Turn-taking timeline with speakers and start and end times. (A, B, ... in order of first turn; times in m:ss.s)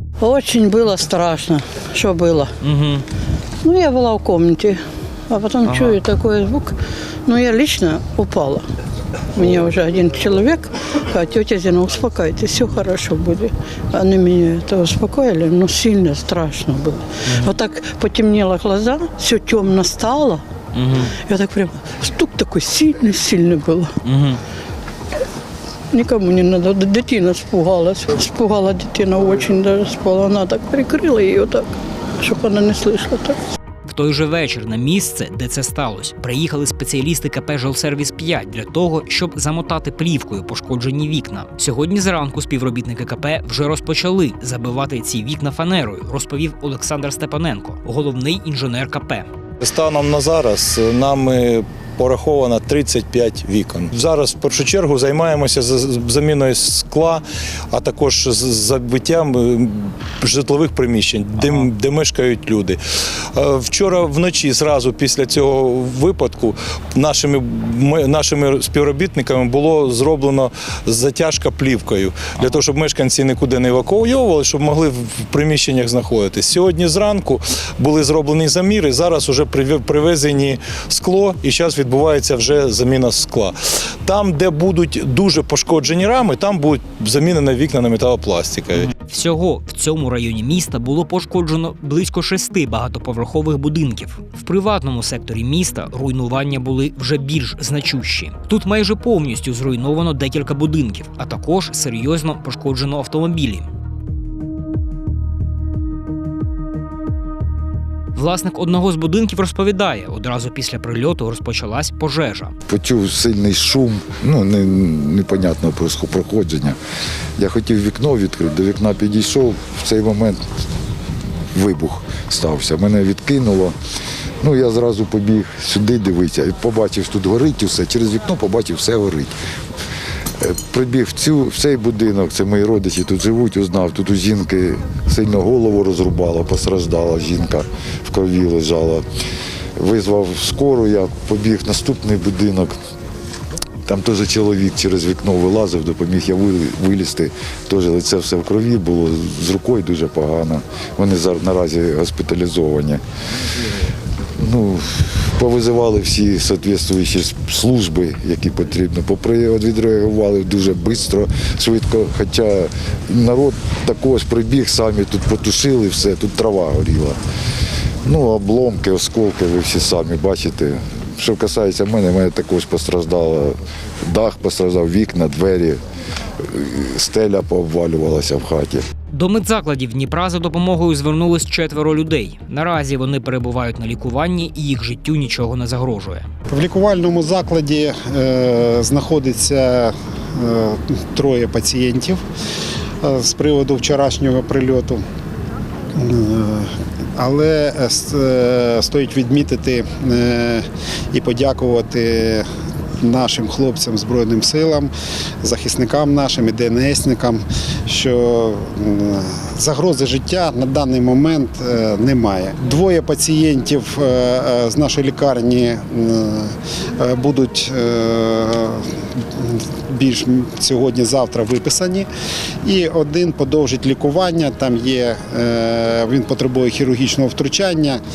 0:00.2-0:02.5 A
0:02.6-0:03.0 B
0:03.6-0:08.7 A
0:05.7-0:06.0 B
0:09.3-0:20.4 A
0:20.8-0:21.1 B
0:21.1-0:23.9 A
0:24.0-0:24.4 B
0:25.9-0:31.7 A
0:32.2-0:33.4 A
0:33.8-0:49.3 B
0:49.6-1:02.8 C
1:03.3-1:28.9 C
1:28.9-1:43.7 B
1:48.2-1:52.5 B
1:52.7-1:56.8 D
1:57.4-2:00.4 D
2:01.5-2:03.8 D
2:04.4-2:09.3 D
2:10.4-2:19.0 D
2:19.8-2:22.8 D
2:23.8-2:33.0 D
2:34.3-2:47.2 D
2:48.0-2:55.8 D
2:56.4-2:58.8 D
2:59.1-3:06.3 B
3:06.5-3:12.2 E
3:13.0-3:15.0 E
3:16.0-3:22.5 E
3:23.0-3:42.1 E
3:42.6-3:48.0 E